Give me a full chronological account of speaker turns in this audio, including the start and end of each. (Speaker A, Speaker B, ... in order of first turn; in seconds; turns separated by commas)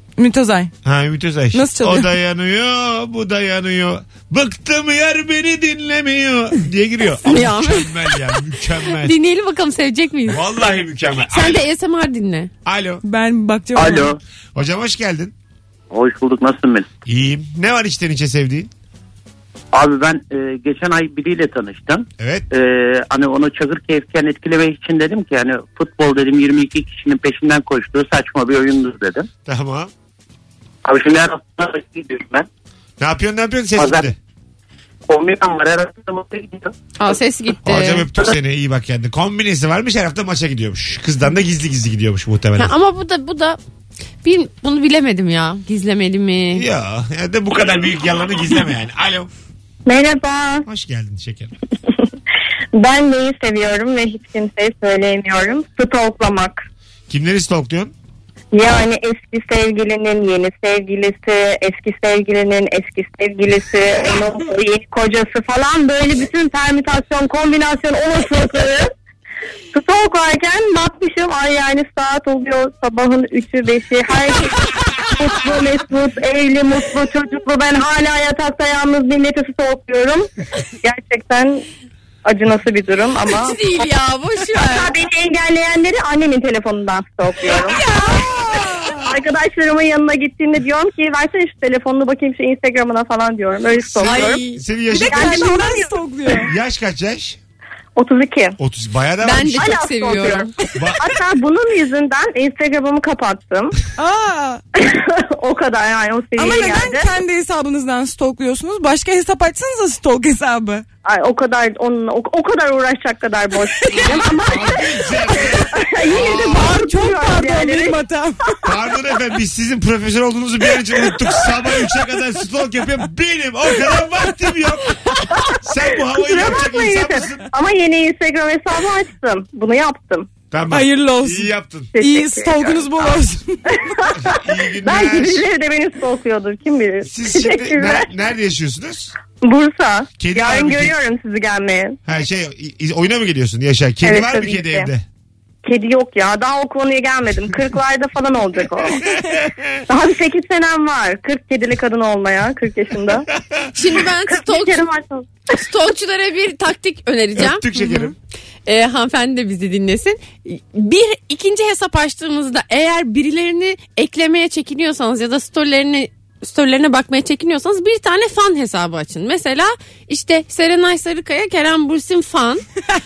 Speaker A: 0.2-0.7, Speaker B: 0.8-9.1, Speaker A: 1.5-2.1, Speaker C: 7.2-8.2, Speaker C: 8.8-10.4, Speaker B: 10.3-11.7, Speaker C: 11.3-12.5, Speaker B: 12.6-13.0, Speaker A: 13.0-14.2, Speaker D: 13.8-14.1, Speaker B: 14.5-15.3, Speaker D: 15.9-16.9, Speaker B: 17.1-18.7, Speaker D: 19.7-29.3, Speaker B: 22.2-22.5, Speaker B: 29.4-29.9, Speaker D: 30.8-32.5, Speaker B: 33.0-34.1, Speaker D: 33.8-34.1, Speaker D: 35.1-36.7, Speaker C: 37.0-38.0, Speaker B: 37.6-42.7, Speaker C: 42.5-43.6, Speaker C: 44.2-46.6, Speaker B: 46.5-49.3, Speaker E: 49.9-50.7, Speaker B: 50.6-51.5, Speaker E: 52.7-56.6, Speaker B: 57.1-57.9, Speaker E: 58.5-68.9, Speaker E: 69.7-80.3, Speaker E: 80.8-81.6, Speaker E: 82.2-83.9, Speaker C: 83.2-85.0, Speaker E: 84.6-87.8, Speaker C: 87.5-89.1, Speaker A: 87.9-88.7, Speaker E: 89.0-94.4, Speaker B: 93.8-95.5, Speaker C: 94.0-94.6, Speaker E: 94.9-95.9, Speaker A: 94.9-96.5, Speaker B: 96.4-97.4, Speaker E: 98.0-98.6, Speaker B: 98.6-99.7, Speaker C: 99.2-100.5, Speaker E: 99.5-103.8, Speaker B: 100.8-101.0, Speaker A: 104.0-104.6, Speaker E: 104.8-107.1, Speaker A: 106.4-110.8, Speaker E: 111.0-118.0, Speaker B: 114.1-116.7, Speaker A: 116.2-118.4, Speaker B: 118.6-127.5, Speaker E: 125.5-130.3, Speaker B: 130.5-131.9, Speaker A: 130.7-133.7, Speaker E: 131.9-133.2, Speaker E: 133.7-138.1, Speaker B: 134.2-135.5, Speaker B: 137.0-139.1, Speaker E: 139.4-142.0, Speaker B: 140.2-141.0, Speaker B: 142.1-145.0, Speaker E: 144.0-144.9, Speaker E: 145.6-149.0, Speaker B: 149.3-149.8, Speaker E: 149.9-153.3, Speaker C: 153.7-154.9, Speaker E: 154.3-155.3, Speaker C: 155.6-157.9, Speaker B: 157.3-158.1, Speaker C: 158.7-172.6